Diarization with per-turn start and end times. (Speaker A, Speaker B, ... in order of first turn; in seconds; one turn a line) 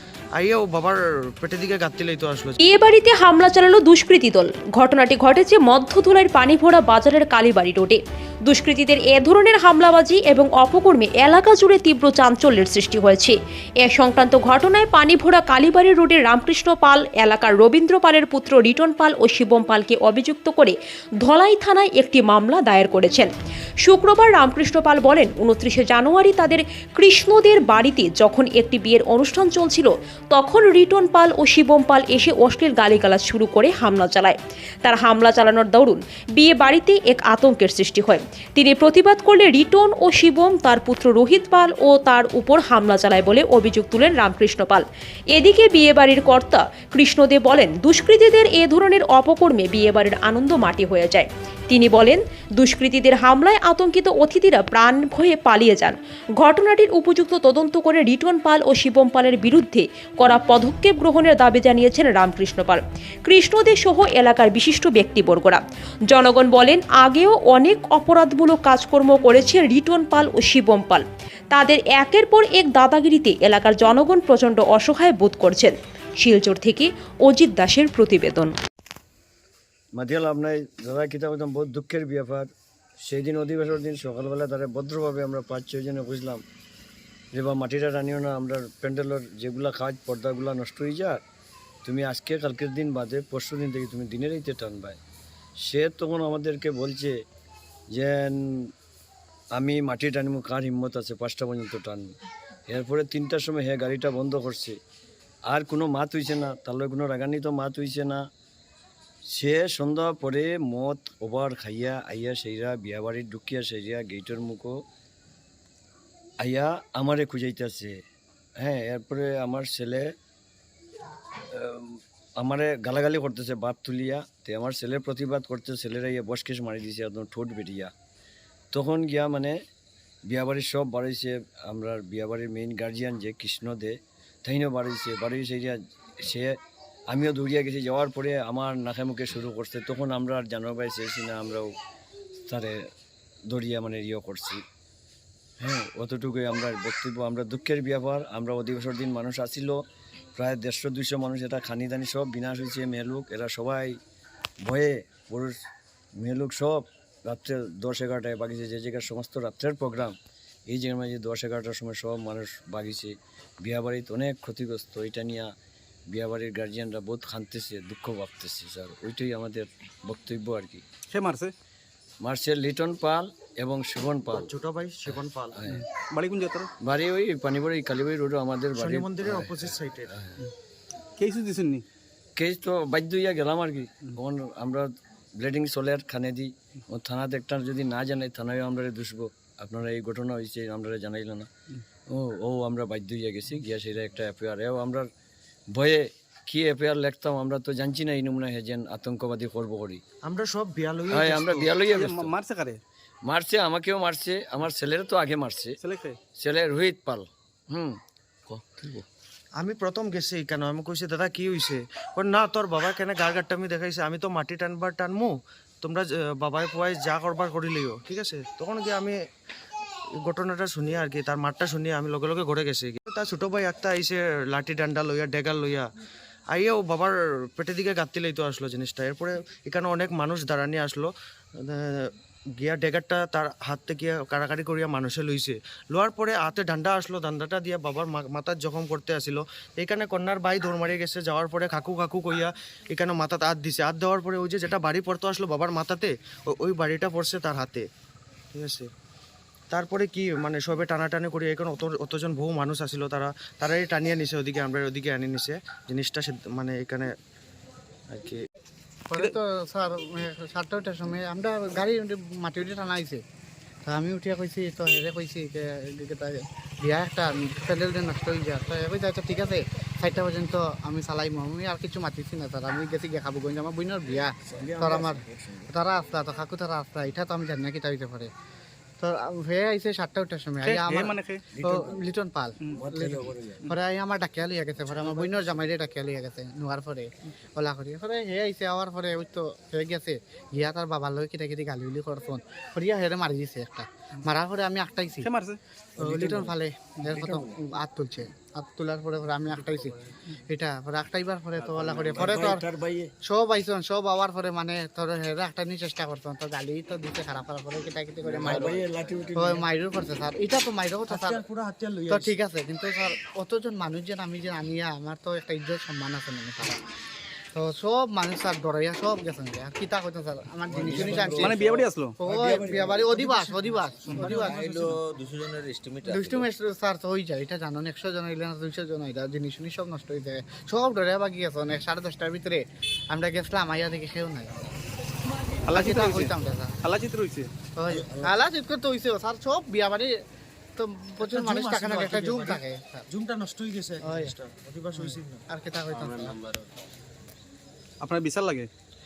Speaker A: 0.3-2.6
Speaker B: 2.6-23.3
Speaker B: 23.8-78.5
Speaker C: 79.9-82.5
Speaker C: 83.0-86.4
Speaker C: 87.3-91.2
Speaker C: 91.8-95.0
Speaker C: 95.6-97.2
Speaker C: 97.9-98.7
Speaker C: 99.5-102.1
Speaker C: 102.7-104.8
Speaker C: 105.5-108.2
Speaker C: 109.3-114.8
Speaker C: 116.4-118.0
Speaker C: 118.6-120.1
Speaker C: 121.5-127.9
Speaker C: 128.7-129.6
Speaker C: 130.3-136.6
Speaker C: 137.1-141.7
Speaker C: 142.4-142.9
Speaker C: 143.5-144.6
Speaker C: 145.6-149.8
Speaker C: 150.3-154.0
Speaker C: 154.6-155.6
Speaker C: 156.2-160.2
Speaker C: 160.7-165.5
Speaker C: 166.1-170.8
Speaker D: 171.1-171.5
Speaker C: 172.2-174.5
Speaker A: 174.3-175.6
Speaker C: 175.1-175.8
Speaker D: 175.7-176.7
Speaker C: 176.8-180.4
Speaker A: 178.8-180.1
Speaker D: 181.2-181.8
Speaker C: 182.4-191.5
Speaker C: 192.1-195.1
Speaker C: 195.7-200.0
Speaker A: 200.2-201.7
Speaker C: 201.1-202.3
Speaker D: 201.9-202.8
Speaker C: 203.2-205.8
Speaker D: 205.8-206.2
Speaker C: 206.4-209.1
Speaker A: 209.6-219.2
Speaker A: 220.2-225.9
Speaker A: 226.5-231.1
Speaker A: 231.6-247.9
Speaker A: 248.5-248.9
Speaker A: 249.7-257.1
Speaker A: 258.1-258.4
Speaker E: 259.1-263.2
Speaker E: 263.9-278.3
Speaker C: 274.8-275.1
Speaker E: 279.0-295.3
Speaker D: 280.6-281.5
Speaker C: 282.9-283.2
Speaker D: 295.2-295.6
Speaker E: 296.0-302.7
Speaker C: 296.0-296.5
Speaker C: 297.1-297.4
Speaker F: 301.8-302.4
Speaker C: 301.9-303.1
Speaker E: 303.2-308.8
Speaker C: 308.2-309.6
Speaker F: 308.4-309.4
Speaker E: 309.3-311.4
Speaker A: 311.1-312.3
Speaker E: 312.1-316.8
Speaker E: 317.5-321.6
Speaker F: 320.7-323.3
Speaker D: 321.4-322.2
Speaker E: 322.2-324.6
Speaker A: 323.1-325.0
Speaker F: 324.1-326.5
Speaker E: 326.0-334.6
Speaker D: 335.7-337.5
Speaker E: 335.7-336.8
Speaker E: 337.8-340.1
Speaker E: 340.8-343.1
Speaker A: 341.2-345.4
Speaker E: 344.0-344.3
Speaker E: 344.9-346.4
Speaker F: 345.9-346.6
Speaker D: 348.0-348.7